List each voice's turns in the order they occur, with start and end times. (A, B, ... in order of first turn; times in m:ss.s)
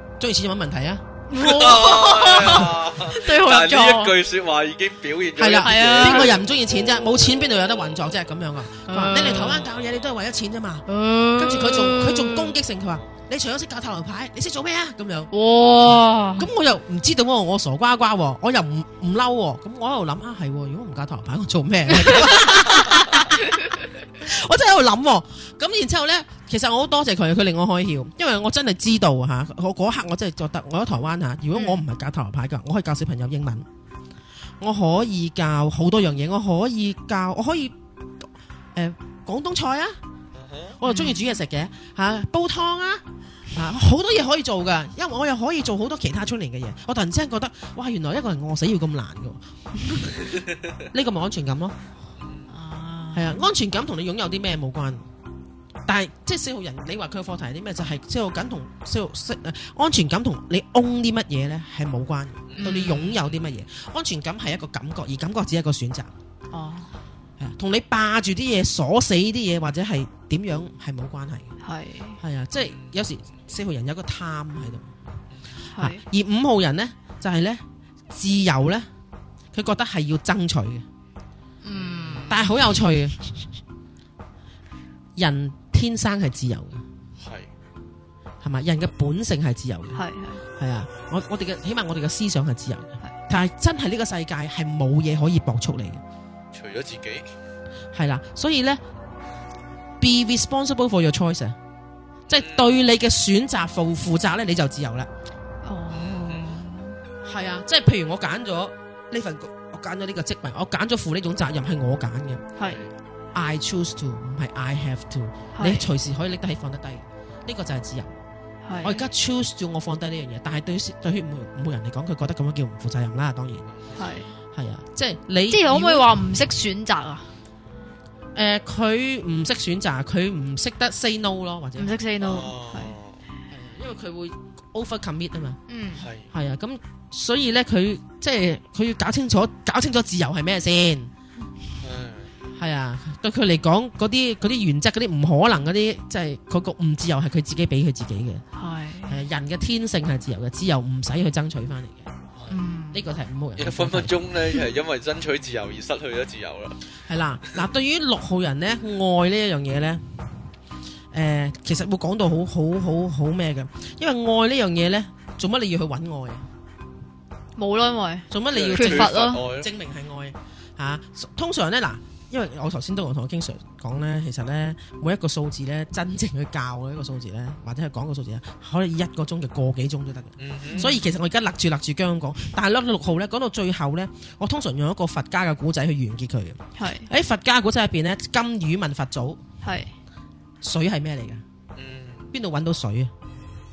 0:00.2-0:01.0 A
0:01.3-0:04.1 B
0:01.3-0:08.1 C
0:05.4-0:15.3 A
0:05.6-0:06.3 B
0:08.9-0:09.6 B
0:09.6-0:10.0 C
0:10.9-0:12.5 B
0:15.3-0:16.5 B
0:16.4-0:23.4 A
0:24.2-0:33.6 A
0:31.5-0:31.8 B
0:34.6-0:37.7 A
0:38.7-0:40.0 A
0:40.3-0:40.8 C
0:40.8-0:49.4 A
0:40.8-0:41.4 B
0:50.9-0:51.8 A
0:52.2-0:52.4 C
0:52.5-0:53.5 B
0:53.1-0:55.0 A
0:55.9-1:06.1 A
1:02.5-1:03.6 C
1:02.6-1:03.2 B
1:06.5-1:06.9 B
1:07.4-1:11.5 A
1:11.6-1:12.2 B
1:12.2-1:14.9 A
1:12.7-1:13.0 C
1:15.7-1:16.0 B
1:15.8-1:18.9 A
1:19.5-1:20.8 A
1:21.6-1:22.5 B
1:21.7-1:22.4 C
1:22.3-1:23.2 A
1:25.2-1:26.8 A
1:27.2-1:27.5 C
1:28.4-1:30.0 A
1:29.9-1:30.4 B
1:30.6-1:36.0 A
1:36.5-1:37.3 C
1:37.9-1:38.8 A
1:40.0-1:41.6 A
1:42.3-1:42.7 C
1:42.3-1:45.1 A
1:45.6-1:47.0 B
1:45.9-1:46.5 C
1:47.2-1:52.4 A
1:52.6-1:52.9 C
1:53.3-1:58.2 A
1:55.5-1:55.9 B
1:58.6-1:59.0 B
1:58.8-2:03.6 A
2:03.7-2:04.0 C
2:04.0-2:04.3 B
2:04.5-2:06.1 A
2:05.5-2:07.3 B
2:08.3-2:12.0 A
2:11.8-2:12.9 B
2:12.2-2:13.2 C
2:13.5-2:15.6 A
2:15.7-2:16.1 B
2:16.0-2:16.3 C
2:16.3-2:21.1 A
2:21.8-2:22.3 C
2:22.6-2:28.4 A
2:28.5-2:29.2 B
2:29.1-2:32.1 A
2:32.5-2:33.0 B
2:32.9-2:34.2 A
2:33.6-2:36.8 C
2:37.0-2:40.0 A
2:41.1-2:46.4 A
2:47.6-2:49.4 B
2:48.3-3:09.4 A
2:48.5-2:49.7 C
3:00.4-3:00.9 C
3:00.7-3:01.0 B
3:06.8-3:07.1 B
3:09.6-3:09.9 B
3:10.6-3:11.4 A
3:11.8-3:12.3 C
3:12.3-3:13.1 A